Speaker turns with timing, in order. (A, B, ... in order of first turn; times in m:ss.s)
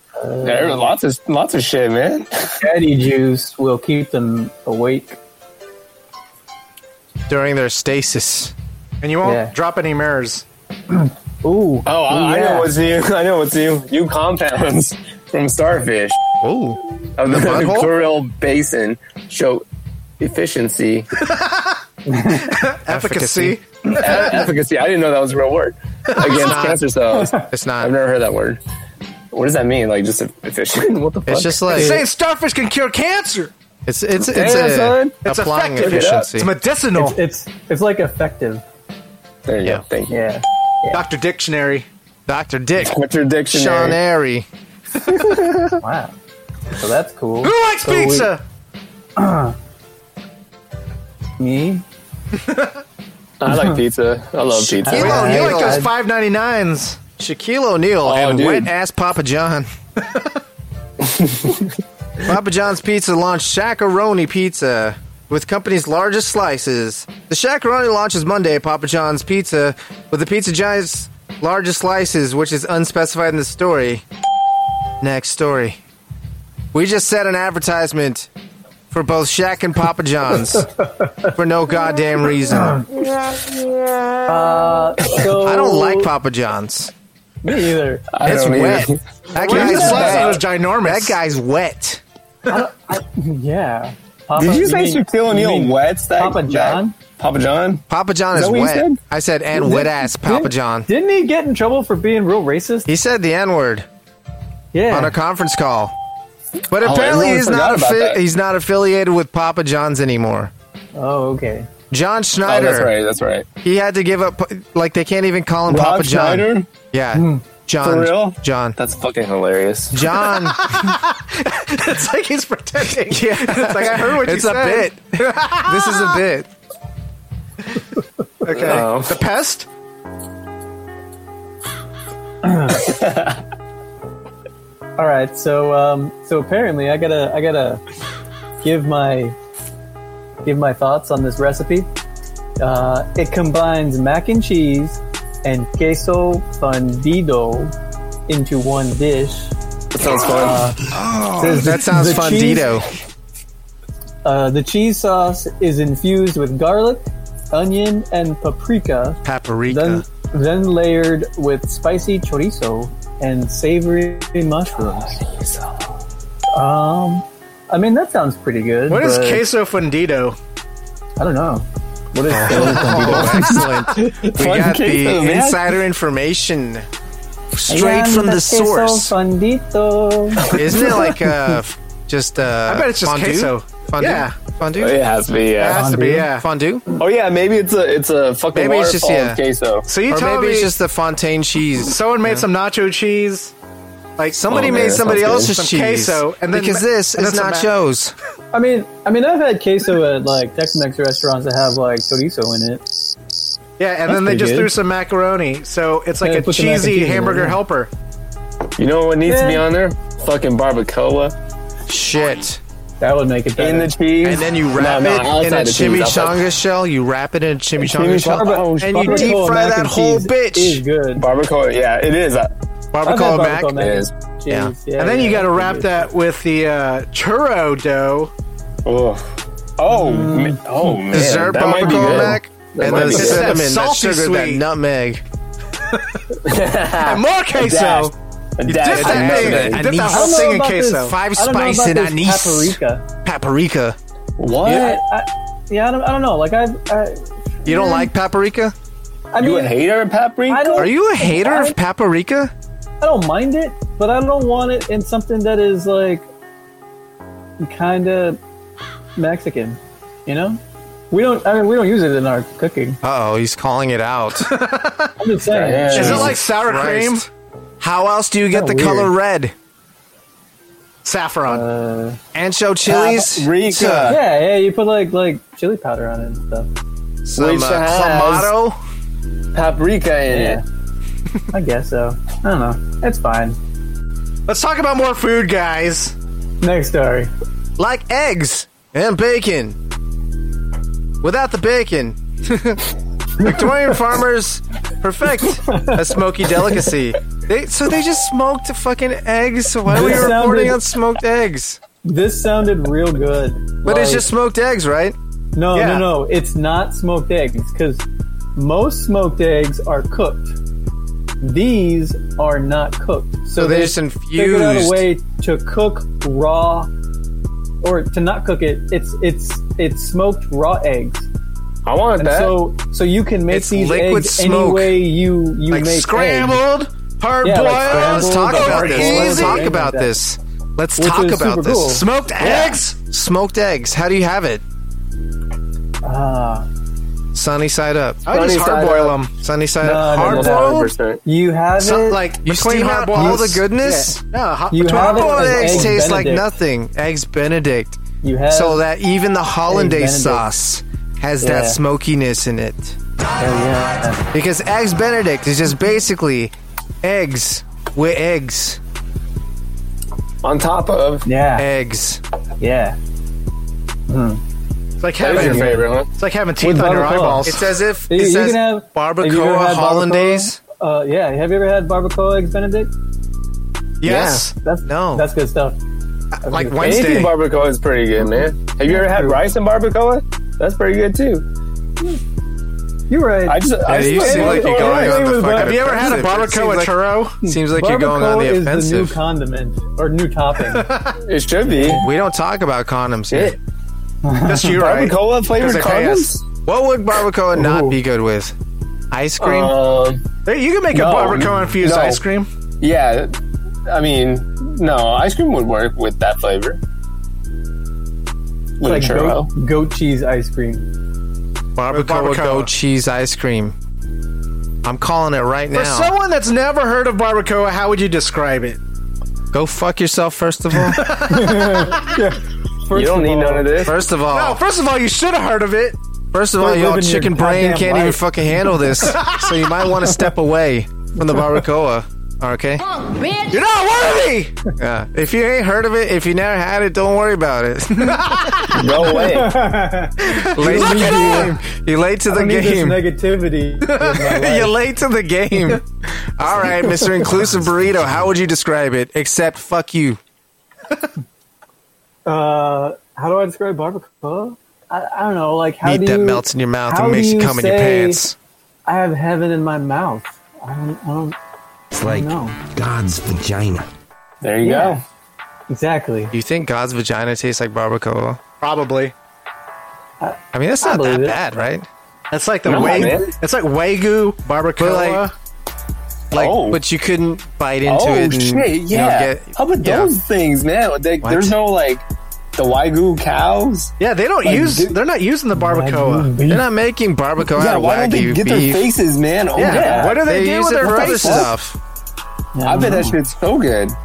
0:00.2-0:00.9 A
0:00.4-0:02.6 B
0:02.6-0:05.2 A
0:07.3-0:08.5 C
0:09.0-0:10.4 D
0:09.2-0:09.5 A
0:10.9-0:12.7 A
0:11.8-0:16.2 B
0:16.4-0:17.9 C
0:17.2-0:19.6 B
0:20.2-0:21.1 B
0:22.1-0:22.5 A
0:22.4-0:23.6 D
0:22.9-0:23.6 C
0:23.9-0:28.6 B
0:26.1-0:26.5 D
0:26.2-0:26.8 C
0:27.5-0:27.9 C
0:29.3-0:31.6 B
0:31.2-0:32.0 C
0:31.7-0:32.0 A
0:31.7-0:33.5 D
0:33.9-0:36.5 C
0:34.2-0:35.2 B
0:35.2-0:37.2 D
0:35.8-0:36.3 B
0:36.9-0:38.6 A
0:39.5-0:40.2 B
0:40.1-0:41.0 A
0:40.9-0:41.9 D
0:42.3-0:43.0 C
0:42.8-0:44.0 B
0:43.5-0:44.4 C
0:45.2-0:45.6 B
0:45.8-0:46.1 A
0:46.7-0:48.3 A
0:47.4-0:48.4 D
0:49.2-0:49.6 A
0:51.4-0:51.8 A
0:52.5-0:52.7 D
0:53.4-0:55.2 B
0:53.5-0:53.8 A
0:54.8-0:55.8 C
0:54.9-0:55.9 A
0:54.9-0:57.0 D
0:57.2-0:59.7 C
0:58.0-0:58.7 B
1:01.1-1:01.5 B
1:02.2-1:14.0 C
1:15.0-1:15.8 C
1:16.7-1:18.3 C
1:18.9-1:20.7 C
1:21.3-1:22.8 C
1:24.3-1:26.1 A
1:25.4-1:26.9 C
1:27.4-1:28.1 A
1:28.1-1:30.4 B
1:28.2-1:32.0 C
1:28.3-1:31.2 D
1:32.5-1:36.9 A
1:34.4-1:39.0 B
1:37.9-1:40.9 C
1:39.5-1:42.9 A
1:42.8-1:43.8 C
1:44.7-1:45.2 A
1:44.9-1:45.9 C
1:46.7-1:50.5 C
1:46.8-1:48.2 B
1:50.9-1:51.7 A
1:51.9-1:52.9 C
1:52.4-1:53.5 B
1:53.6-1:58.8 C
1:55.7-1:56.7 B
1:57.1-1:57.4 A
1:57.8-1:59.9 B
1:59.9-2:00.9 C
2:00.3-2:06.2 D
2:03.1-2:06.5 C
2:08.4-2:09.7 D
2:08.5-2:09.2 B
2:12.4-2:12.9 A
2:12.8-2:13.4 B
2:15.0-2:17.8 A
2:18.6-2:19.4 A
2:20.4-2:21.9 A
2:22.6-2:27.7 A
2:28.3-2:29.5 A
2:29.9-2:30.6 B
2:30.3-2:32.7 A
2:31.6-2:32.9 C
2:34.2-2:45.2 A
2:39.2-2:40.0 C
2:45.3-2:45.8 B
2:46.5-2:49.4 A
2:48.9-2:50.4 D
2:51.2-2:53.6 A
2:52.3-2:56.8 C
2:52.5-2:55.8 B
2:57.5-2:59.1 C
2:57.7-3:01.2 A
3:00.5-3:05.0 C
3:02.6-3:04.3 D
3:04.8-3:05.9 B
3:05.6-3:06.4 D
3:05.6-3:06.3 A
3:06.3-3:06.8 C
3:07.0-3:09.9 B
3:08.5-3:09.4 C
3:09.9-3:10.7 D
3:10.1-3:12.4 C
3:11.9-3:13.5 D
3:14.2-3:14.7 D
3:14.3-3:18.1 C
3:14.5-3:15.5 B
3:15.4-3:17.7 D
3:18.5-3:23.1 A
3:23.8-3:27.9 D
3:24.1-3:24.7 A
3:26.2-3:27.6 A
3:28.8-3:31.3 B
3:29.2-3:29.6 A
3:31.9-3:32.6 C
3:33.0-3:33.9 A
3:33.6-3:36.4 B
3:34.2-3:40.8 C
3:37.8-3:39.4 B
3:38.3-3:41.2 A
3:41.2-3:42.5 B
3:42.9-3:43.8 C
3:43.0-3:46.0 A
3:43.8-3:44.1 B
3:44.5-3:44.7 C
3:45.0-3:48.3 D
3:48.8-3:49.2 B
3:49.8-3:53.6 B
3:49.9-3:51.0 A
3:51.1-3:55.2 C
3:51.6-3:52.4 A
3:52.9-3:54.6 D
3:55.9-3:56.2 D
3:56.4-3:59.8 B
3:57.0-3:58.1 D
3:58.6-4:01.2 D
3:58.8-4:04.0 C
3:59.9-4:03.0 A
4:04.4-4:05.0 B
4:04.6-4:08.1 A
4:07.6-4:08.7 C
4:09.3-4:09.8 A
4:09.4-4:10.9 B
4:10.5-4:11.8 A
4:10.7-4:12.5 C
4:13.0-4:16.3 A
4:17.6-4:18.4 A
4:19.2-4:23.0 A
4:23.0-4:24.5 C
4:24.4-4:25.2 D
4:25.2-4:26.2 A
4:25.5-4:26.4 B
4:25.9-4:27.3 D
4:25.9-4:27.3 C
4:27.8-4:29.5 C
4:28.5-4:29.1 A
4:31.0-4:31.6 D
4:31.5-4:32.2 A
4:32.3-4:34.1 C
4:32.8-4:34.2 B
4:34.1-4:36.7 A
4:37.2-4:38.8 C
4:37.4-4:38.5 B
4:39.5-4:40.6 B
4:40.3-4:40.6 A
4:41.5-4:43.6 A
4:44.5-4:46.1 D
4:46.6-4:47.3 A
4:47.8-4:49.8 C
4:51.2-4:52.8 C
4:53.4-5:01.8 C
4:55.7-4:56.0 A
4:59.9-5:00.8 A
5:02.0-5:04.3 A
5:03.8-5:05.2 C
5:05.5-5:08.0 A
5:05.7-5:06.1 D
5:08.6-5:10.6 A
5:11.4-5:16.9 A
5:13.6-5:15.0 C
5:17.8-5:21.3 A
5:21.8-5:22.6 B
5:22.2-5:26.6 A
5:23.5-5:25.0 C
5:25.7-5:34.6 C
5:27.4-5:29.7 D
5:27.4-5:30.1 A
5:31.0-5:32.1 A
5:32.0-5:32.9 D
5:36.0-5:36.7 A
5:37.3-5:38.4 C
5:38.2-5:39.3 D
5:38.3-5:39.1 B
5:39.3-5:40.9 C
5:39.8-5:42.3 A
5:40.1-5:41.2 B
5:41.8-5:46.0 D
5:42.4-5:44.2 C
5:43.1-5:43.6 A
5:44.7-5:46.5 A
5:44.9-5:48.0 C
5:48.2-5:48.8 A
5:48.5-5:53.0 C
5:49.7-5:50.4 A
5:51.4-5:51.8 A
5:53.4-5:54.2 A
5:54.3-5:58.8 C
6:00.4-6:01.3 B
6:01.2-6:01.7 A
6:01.6-6:02.2 C
6:02.6-6:03.0 A
6:04.1-6:04.4 A
6:05.0-6:07.6 D
6:05.2-6:06.1 B
6:05.4-6:05.8 A
6:06.6-6:12.9 A
6:07.4-6:10.6 C
6:14.0-6:14.5 D
6:14.1-6:14.4 B
6:14.5-6:15.8 A
6:14.8-6:15.3 C
6:16.4-6:17.3 D
6:16.4-6:16.9 A
6:16.8-6:21.4 B
6:18.9-6:19.4 A
6:23.1-6:26.2 A
6:23.4-6:25.3 B
6:23.9-6:29.2 C
6:25.1-6:27.4 D
6:27.5-6:30.9 A
6:30.7-6:31.2 D
6:31.2-6:32.0 B
6:31.7-6:32.1 A
6:32.0-6:33.6 C
6:33.3-6:33.6 B
6:34.2-6:34.7 A
6:34.4-6:36.3 D
6:34.6-6:36.4 B
6:36.6-6:38.5 C
6:37.6-6:38.0 A
6:39.1-6:39.7 C
6:39.4-6:40.2 B
6:40.4-6:42.5 D
6:40.9-6:42.2 B
6:42.8-6:43.3 B
6:43.9-6:46.8 B
6:48.8-6:49.5 B
6:48.8-6:50.9 A
6:51.8-6:53.7 C
6:51.9-6:52.7 D
6:54.8-6:56.1 C
6:55.7-6:58.8 D
6:59.5-7:01.1 C
7:00.9-7:02.0 D
7:01.1-7:03.9 A
7:02.9-7:03.9 B
7:03.8-7:04.6 C
7:04.3-7:06.0 D
7:06.3-7:12.8 C
7:06.6-7:08.2 A
7:09.0-7:09.9 D
7:13.5-7:14.5 D
7:14.8-7:18.6 C
7:18.0-7:19.0 D
7:18.7-7:19.6 B
7:19.2-7:21.6 A
7:20.2-7:21.6 D
7:20.5-7:23.0 C
7:22.3-7:24.8 A
7:23.8-7:24.3 D
7:24.3-7:25.8 C
7:26.4-7:30.2 C
7:26.8-7:27.2 A
7:32.2-7:38.2 A
7:35.8-7:38.4 C
7:38.8-7:41.4 A
7:41.9-7:43.9 E
7:42.0-7:42.6 A
7:44.4-7:45.0 B
7:44.6-7:45.0 A
7:45.7-7:46.3 A
7:46.3-7:48.4 C
7:48.6-7:49.1 D
7:50.2-7:51.4 A
7:50.5-7:51.9 C
7:52.3-7:55.3 D
7:52.6-7:53.3 B
7:54.8-7:55.3 C
7:56.3-8:00.1 C
7:56.3-7:56.8 B
7:57.8-8:02.0 B
8:01.2-8:01.6 C
8:02.6-8:03.9 B
8:04.0-8:06.3 D
8:04.4-8:04.9 B
8:05.6-8:06.7 A
8:06.5-8:08.9 C
8:07.6-8:10.2 B
8:09.5-8:11.5 D
8:09.6-8:10.2 A
8:10.1-8:11.8 C
8:10.9-8:11.5 B
8:11.1-8:11.4 A
8:12.5-8:13.2 A
8:12.6-8:14.0 B